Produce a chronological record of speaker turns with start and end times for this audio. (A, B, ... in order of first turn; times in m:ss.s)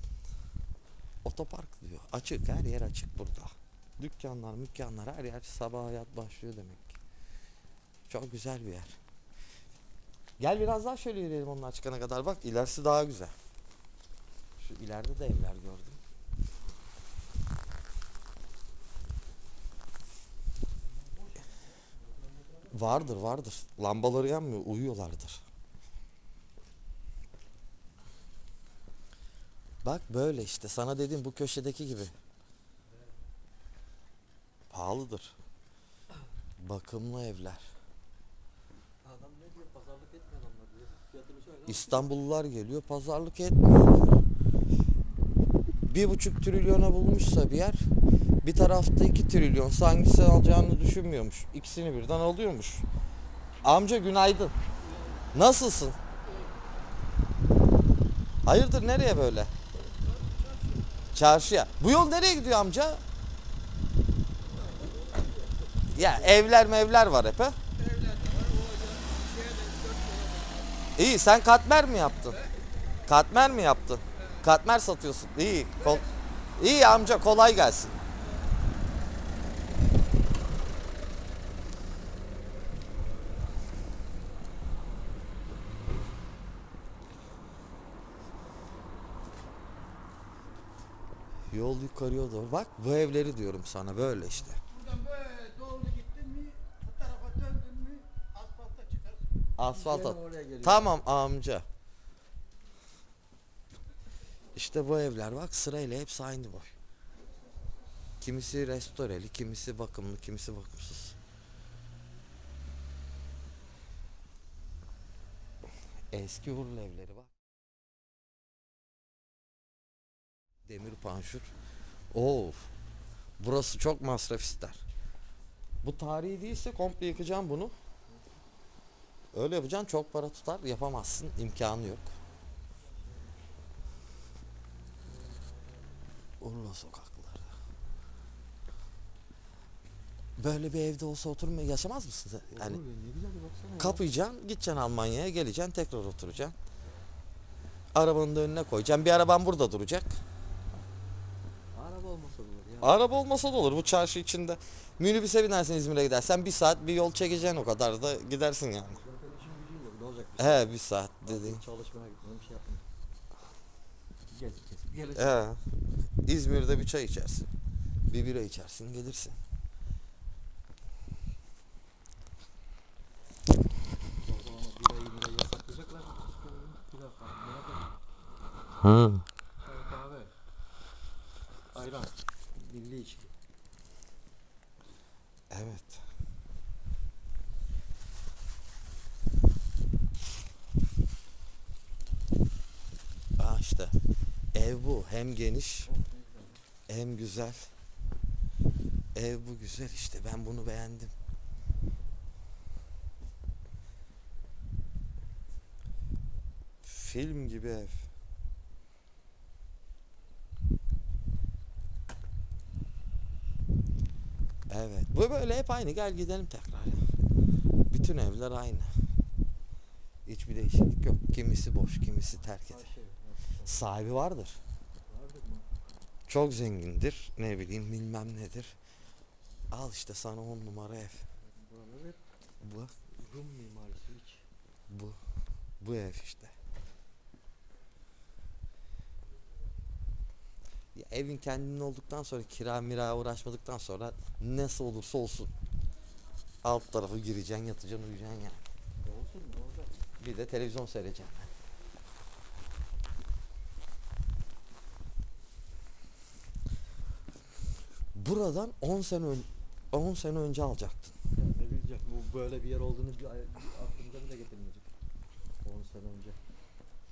0:01.2-0:07.0 A
0:08.1-0:09.0 A
0:10.4-0:13.3 A
0:14.6-0:16.0 A
0:22.7-0:25.4 A
0:29.8-0:32.1 A
0:34.7-0:35.4 A
0:36.6-0:37.6 A
0:39.0-0:42.1 B
0:41.7-0:44.2 A
0:45.8-0:47.9 A
0:48.4-0:52.9 A
0:53.6-0:54.6 A
0:54.9-0:55.2 B
0:55.3-0:56.0 A
0:58.4-0:59.5 A
1:01.1-1:03.0 A
1:04.5-1:06.3 B
1:05.9-1:07.6 A
1:07.9-1:10.6 B
1:11.0-1:12.4 A
1:13.0-1:18.0 A
1:31.5-1:34.6 A
1:34.7-1:40.9 B
1:39.6-1:41.7 A
1:44.6-1:46.8 A
1:48.2-1:51.2 A
1:56.1-1:57.3 A
2:00.7-2:01.5 A
2:02.1-2:02.7 A
2:03.4-2:04.8 A
2:05.8-2:07.7 A
2:09.3-2:12.1 A
2:16.4-2:17.5 A
2:20.4-2:22.8 A
2:22.5-2:24.0 B
2:23.8-2:26.6 A
2:28.0-2:30.2 A
2:31.7-2:33.1 B
2:32.8-2:39.0 A
2:38.8-2:40.7 B
2:40.4-2:41.6 A
2:41.2-2:42.9 B
2:44.3-2:45.4 B
2:45.2-2:45.6 A
2:46.2-2:47.5 A
2:48.1-2:49.4 A
2:54.2-2:57.9 B
2:58.8-2:59.2 A
2:59.6-3:00.3 B
3:01.7-3:03.3 B
3:05.5-3:06.0 A
3:13.4-3:14.0 A
3:14.5-3:15.9 A
3:15.8-3:16.6 B
3:16.9-3:17.7 A
3:19.2-3:21.1 A
3:26.8-3:28.1 A
3:34.7-3:37.0 A
3:37.9-3:38.9 A
3:40.3-3:42.9 A
3:42.4-3:43.8 B
3:43.6-3:44.6 A
3:45.1-3:45.7 B
3:46.3-3:48.8 A
3:49.7-3:51.2 A
3:51.4-3:52.2 B
3:52.6-3:52.9 A
3:53.1-3:54.4 B
3:54.9-3:55.2 A
3:55.8-3:56.5 A
4:00.9-4:05.5 A
4:06.6-4:08.6 A
4:09.0-4:10.0 B
4:10.2-4:11.5 A
4:18.2-4:21.1 A
4:21.4-4:24.9 B
4:25.6-4:26.4 B